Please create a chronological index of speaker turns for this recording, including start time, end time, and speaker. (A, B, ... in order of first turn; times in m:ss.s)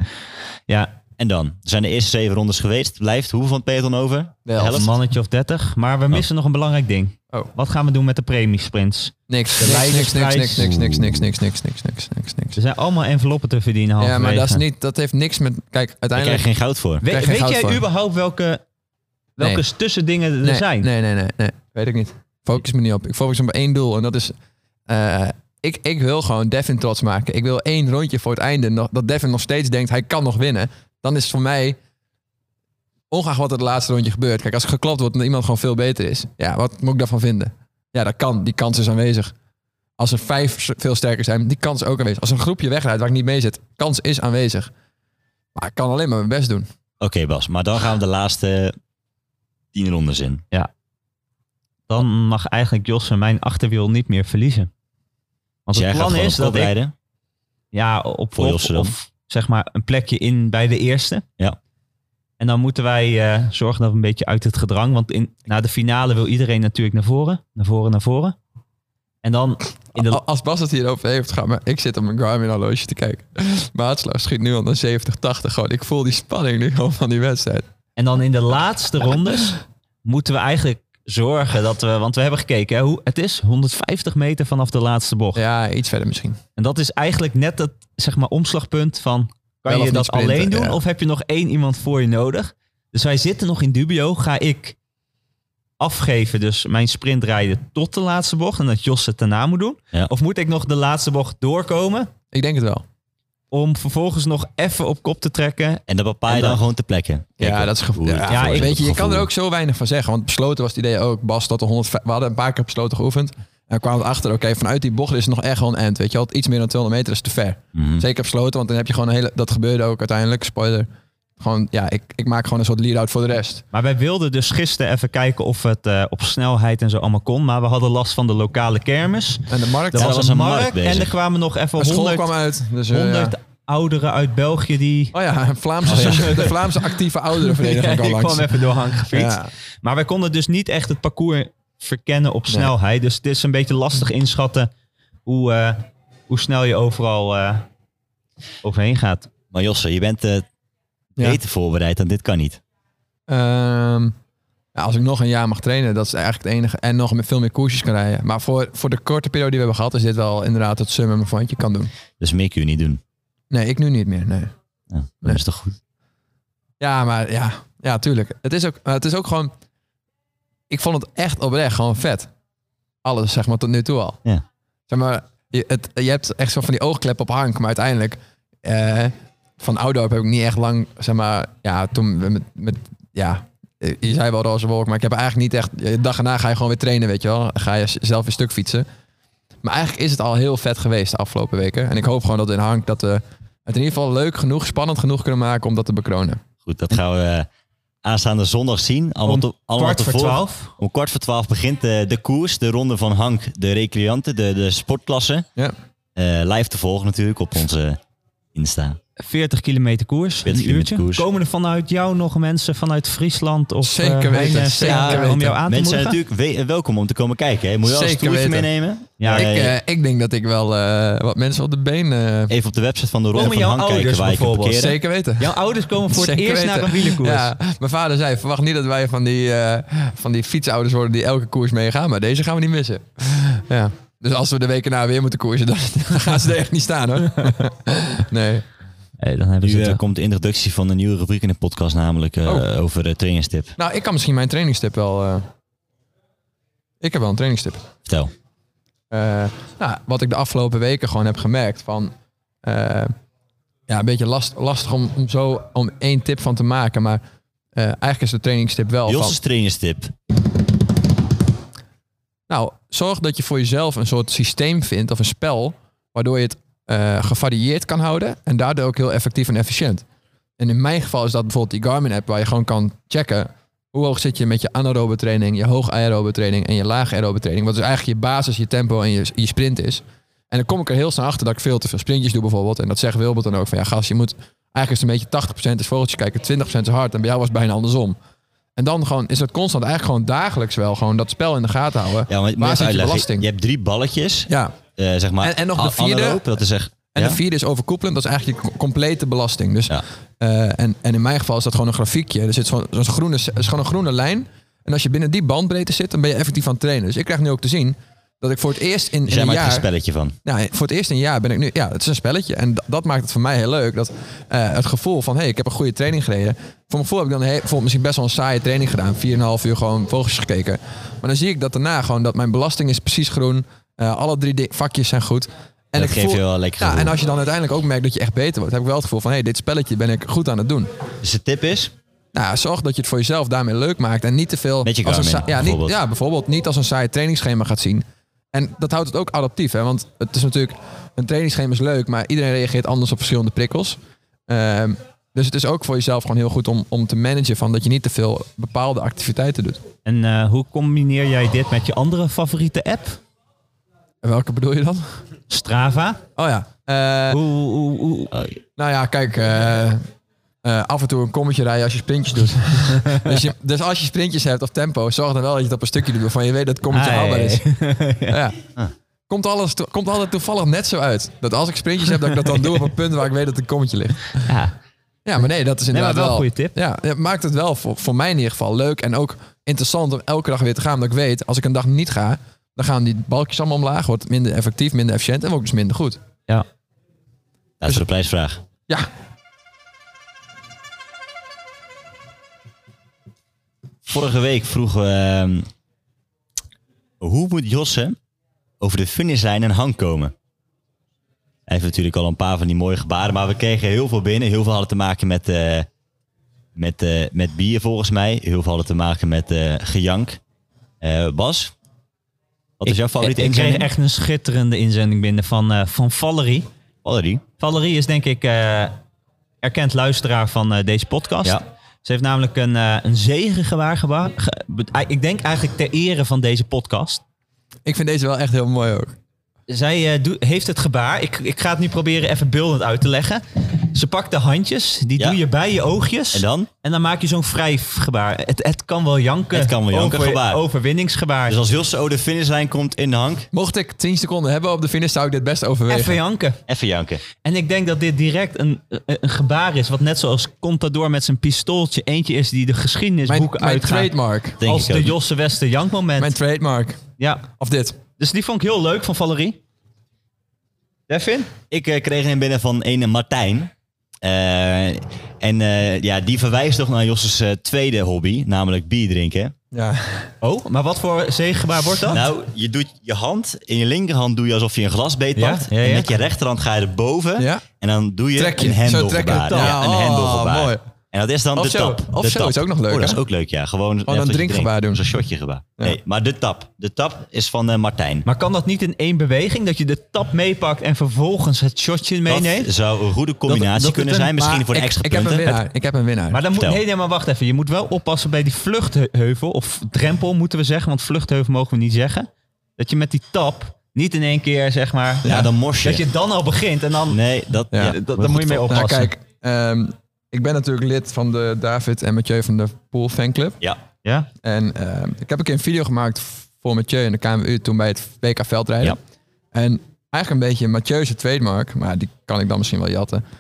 0:00.7-0:00.9 A
0:01.2-0:04.9 B
0:04.5-0:04.8 C
0:04.7-0:10.7 A
0:09.3-0:12.6 C
0:10.6-0:11.2 B
0:12.6-0:14.6 A
0:14.0-0:16.5 C
0:16.2-0:17.0 B
0:17.0-0:18.6 A
0:17.0-0:17.8 C
0:19.4-0:20.9 A
0:20.4-0:24.3 C
0:24.9-0:31.8 C
0:33.1-0:39.3 C
0:40.0-0:44.7 C
0:45.6-0:46.7 C
0:47.0-0:48.8 B
0:49.7-0:50.4 B
0:51.9-0:54.7 A
0:55.7-0:56.7 A
0:55.7-0:56.9 B
0:57.7-1:01.2 A
0:58.4-0:58.9 B
1:02.4-1:08.4 A
1:09.2-1:10.2 A
1:10.0-1:17.7 C
1:18.0-1:25.4 A
1:25.4-1:26.4 C
1:26.6-1:34.8 A
1:29.7-1:30.8 C
1:35.8-1:42.1 A
1:42.3-1:42.8 C
1:43.5-1:46.6 A
1:45.9-1:49.3 B
1:47.4-2:00.9 C
1:48.3-1:48.7 A
1:57.8-1:58.0 B
2:01.4-2:03.6 C
2:03.7-2:12.3 A
2:09.5-2:10.2 C
2:09.9-2:11.1 B
2:11.8-2:13.4 C
2:12.9-2:15.1 A
2:15.1-2:19.5 C
2:15.8-2:24.7 A
2:25.3-2:27.6 A
2:28.6-2:29.3 A
2:29.5-2:30.5 B
2:31.2-2:32.6 B
2:33.3-2:34.1 C
2:34.8-2:41.9 C
2:42.2-2:43.0 B
2:43.5-2:44.5 C
2:44.9-2:45.8 B
2:46.8-2:49.5 C
2:50.7-2:52.3 C
2:53.0-2:54.2 C
2:54.9-3:08.9 C
3:09.6-3:16.4 C
3:16.6-3:17.5 B
3:18.0-3:25.5 B
3:19.3-3:20.7 A
3:26.2-3:28.0 B
3:28.5-3:29.0 B
3:29.2-3:36.2 A
3:30.4-3:31.3 B
3:33.8-3:35.6 C
3:34.8-3:39.8 B
3:37.8-3:38.7 C
3:39.2-3:39.5 A
3:39.3-3:42.5 C
3:42.5-3:45.0 B
3:43.3-3:47.5 A
3:44.8-3:45.6 C
3:46.1-3:58.6 C
3:59.2-4:00.0 A
3:59.6-4:03.8 B
4:03.8-4:05.5 C
4:07.0-4:07.9 C
4:08.1-4:08.3 B
4:09.1-4:12.1 C
4:12.6-4:13.1 C
4:13.9-4:17.2 C
4:17.8-4:19.4 C
4:19.1-4:20.1 B
4:22.5-4:30.0 C
4:30.6-4:48.2 C
4:48.8-4:53.5 C
4:52.3-4:57.4 B
4:54.5-4:54.7 C
4:55.4-4:56.5 C
4:57.1-5:09.9 C
5:09.3-5:10.4 B
5:10.4-5:30.9 C
5:26.0-5:27.2 B
5:31.2-5:31.9 B
5:32.3-5:49.8 C
5:34.8-5:36.0 B
5:50.1-5:53.2 A
5:54.2-5:55.2 C
5:55.5-5:56.2 A
5:56.4-5:57.4 C
5:57.3-5:58.3 A
5:58.8-6:00.0 C
6:00.6-6:07.6 C
6:03.0-6:03.3 A
6:06.9-6:08.4 A
6:08.3-6:08.6 C
6:09.3-6:14.5 C
6:14.5-6:14.7 A
6:15.3-6:26.2 C
6:15.9-6:16.7 A
6:27.8-6:28.6 B
6:34.1-6:35.7 B
6:37.2-6:38.2 B
6:38.8-6:40.3 B
6:41.7-6:45.9 B
6:46.8-6:50.4 B
6:51.0-6:51.7 B
6:52.8-6:53.9 B
6:52.9-6:56.7 A
6:57.0-6:57.4 B
6:57.6-6:59.0 A
6:59.6-7:07.2 A
7:07.9-7:09.1 C
7:09.7-7:21.6 A
7:16.3-7:16.7 B
7:19.5-7:20.6 B
7:21.5-7:23.5 B
7:23.5-7:26.2 C
7:25.9-7:26.6 A
7:26.7-7:27.2 B
7:27.4-7:36.4 A
7:33.3-7:34.6 C
7:34.6-7:35.2 B
7:36.2-7:37.0 C
7:37.2-7:37.4 A
7:37.6-7:38.0 C
7:38.2-7:39.6 A
7:41.1-7:41.5 A
7:41.7-7:43.7 B
7:44.2-7:49.5 B
7:49.7-7:50.3 C
7:50.4-7:52.2 A
7:52.1-8:08.3 B
7:55.4-7:56.1 A
7:57.4-7:57.6 C
7:58.4-8:00.8 C
8:01.5-8:03.2 C
8:04.1-8:05.0 C
8:08.3-8:12.7 A
8:12.3-8:15.6 B
8:13.5-8:14.4 A
8:14.4-8:16.4 C
8:16.3-8:27.2 A
8:16.6-8:16.8 B
8:25.3-8:26.0 B
8:27.1-8:28.7 B
8:27.7-8:28.0 C
8:27.7-8:29.1 A
8:28.6-8:33.6 C
8:34.0-8:34.3 A
8:34.4-8:39.0 C
8:39.5-8:43.2 C